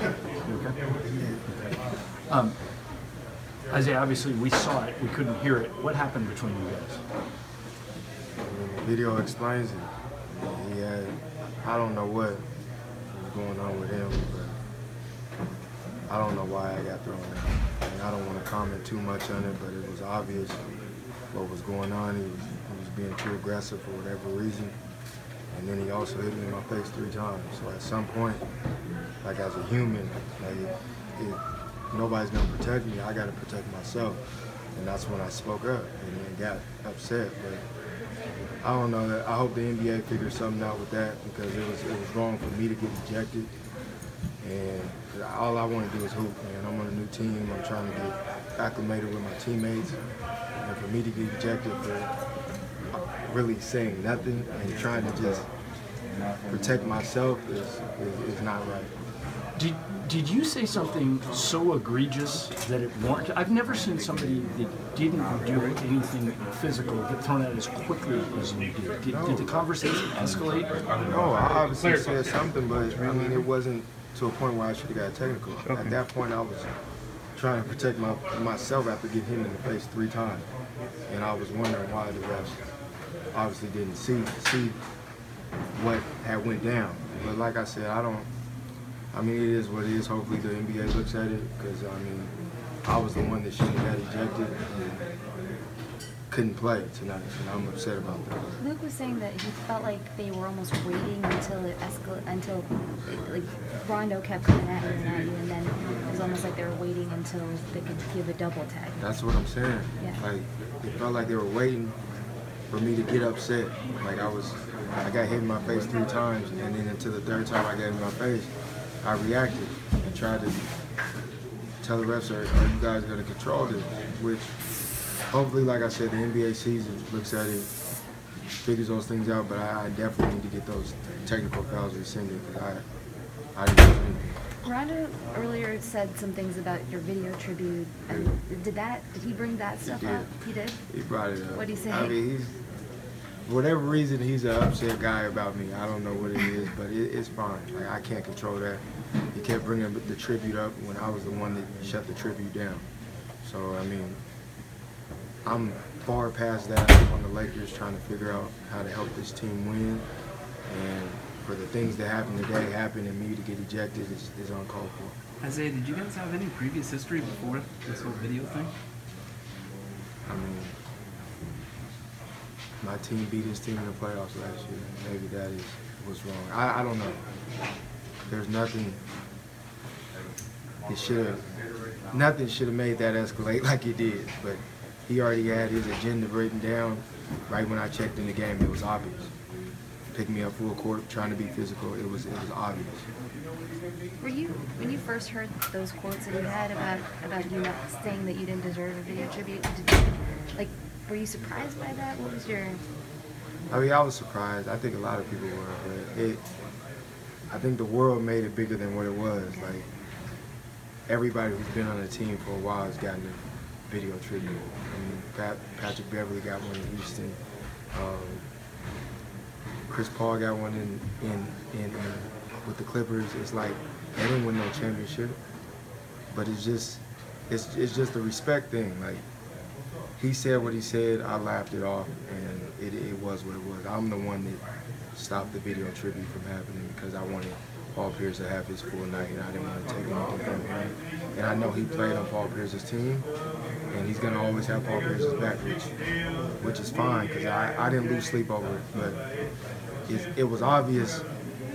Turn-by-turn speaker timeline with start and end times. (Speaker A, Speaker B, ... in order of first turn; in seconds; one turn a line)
Speaker A: 0.4-0.8
Speaker A: 1.5-1.8
Speaker A: 2.3-2.6
Speaker A: 3.7-7.0
Speaker B: 8.4-12.4
Speaker B: 13.1-14.6
Speaker B: 16.1-20.6
Speaker B: 21.3-24.8
Speaker B: 25.5-28.4
Speaker B: 29.2-31.4
Speaker B: 31.9-34.2
Speaker B: 34.8-37.6
Speaker B: 38.6-43.5
Speaker B: 44.4-50.0
Speaker B: 50.6-52.1
Speaker B: 53.1-55.5
Speaker B: 56.5-58.9
Speaker A: 59.6-70.8
Speaker B: 69.1-69.6
Speaker B: 71.1-76.7
Speaker B: 77.4-80.5
Speaker B: 81.1-82.6
Speaker B: 83.3-84.8
Speaker B: 85.8-88.3
Speaker B: 89.1-92.3
Speaker B: 92.8-94.6
Speaker B: 96.3-98.6
Speaker C: 98.6-109.0
Speaker B: 109.0-112.0
Speaker B: 112.7-118.5
Speaker B: 119.0-120.6
Speaker B: 121.8-124.5
Speaker B: 125.3-127.7
Speaker B: 128.6-132.8
Speaker B: 133.6-134.3
Speaker C: 134.6-140.8
Speaker B: 139.8-140.3
Speaker B: 140.9-142.6
Speaker C: 141.6-142.1
Speaker B: 143.5-152.8
Speaker B: 153.4-154.2
Speaker B: 155.4-160.1
Speaker B: 160.7-165.2
Speaker D: 165.4-168.7
Speaker B: 170.3-170.8
Speaker B: 172.8-177.2
Speaker B: 178.3-179.0
Speaker B: 180.9-181.5
Speaker B: 182.1-189.3
Speaker B: 190.1-193.1
Speaker C: 194.2-202.8
Speaker B: 203.7-206.4
Speaker B: 207.5-209.9
Speaker B: 211.1-217.4
Speaker B: 217.9-218.5
Speaker B: 219.9-225.4
Speaker B: 226.3-229.2
Speaker B: 230.2-234.6
Speaker B: 235.2-243.3
Speaker B: 243.9-245.9
Speaker B: 246.6-249.2
Speaker B: 250.1-251.2